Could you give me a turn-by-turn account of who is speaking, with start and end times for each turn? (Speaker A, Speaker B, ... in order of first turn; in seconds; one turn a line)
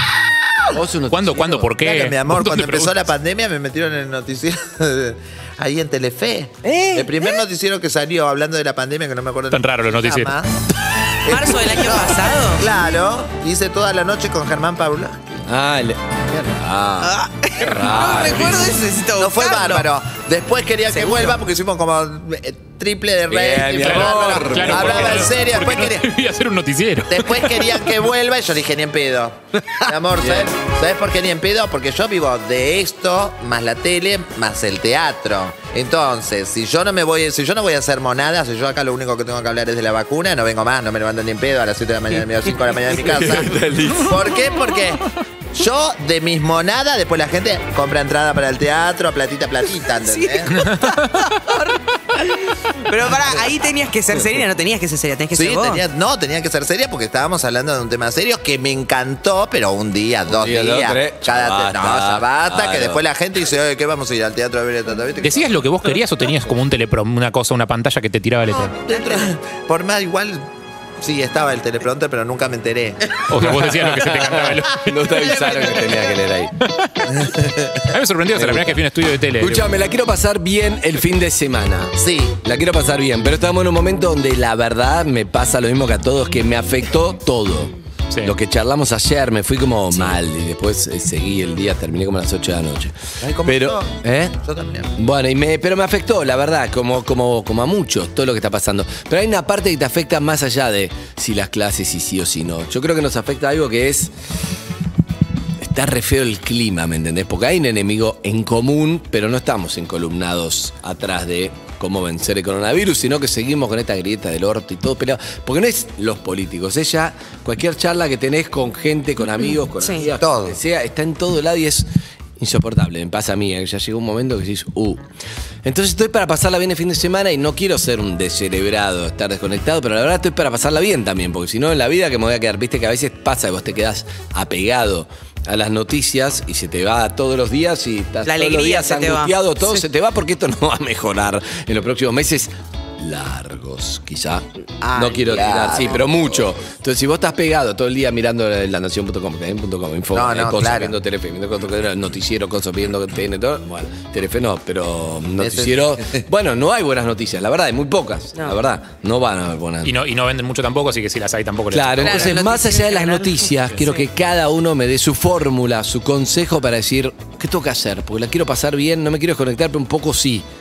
Speaker A: 0.7-1.7
Speaker B: 1.1-3.0
Speaker C: 1.8-10.6
Speaker A: 6.6-7.2
Speaker B: 9.5-10.3
Speaker C: 11.2-15.4
Speaker D: 11.2-12.7
Speaker A: 15.4-18.7
Speaker D: 17.0-19.9
Speaker C: 19.2-26.1
Speaker D: 20.9-21.4
Speaker A: 23.3-25.3
Speaker B: 23.8-27.6
Speaker C: 27.1-50.6
Speaker A: 30.1-30.5
Speaker A: 42.9-44.4
Speaker D: 50.1-55.8
Speaker B: 50.5-51.3
Speaker C: 55.3-65.6
Speaker A: 60.3-63.0
Speaker B: 65.2-68.8
Speaker C: 68.6-70.5
Speaker D: 68.9-69.2
Speaker C: 71.0-73.2
Speaker B: 73.3-75.7
Speaker A: 73.4-76.5
Speaker B: 76.6-77.1
Speaker C: 77.1-77.9
Speaker B: 77.9-79.6
Speaker A: 78.3-78.8
Speaker A: 79.4-94.4
Speaker C: 82.0-82.4
Speaker C: 93.2-94.9
Speaker A: 95.0-104.1
Speaker A: 105.6-121.9
Speaker D: 119.8-120.1
Speaker C: 120.2-120.6
Speaker A: 122.4-125.0
Speaker A: 125.6-159.9
Speaker D: 138.2-139.8
Speaker C: 144.8-146.4
Speaker C: 150.1-150.9
Speaker C: 155.4-156.2
Speaker B: 159.8-162.4
Speaker A: 161.7-170.4
Speaker D: 162.0-164.0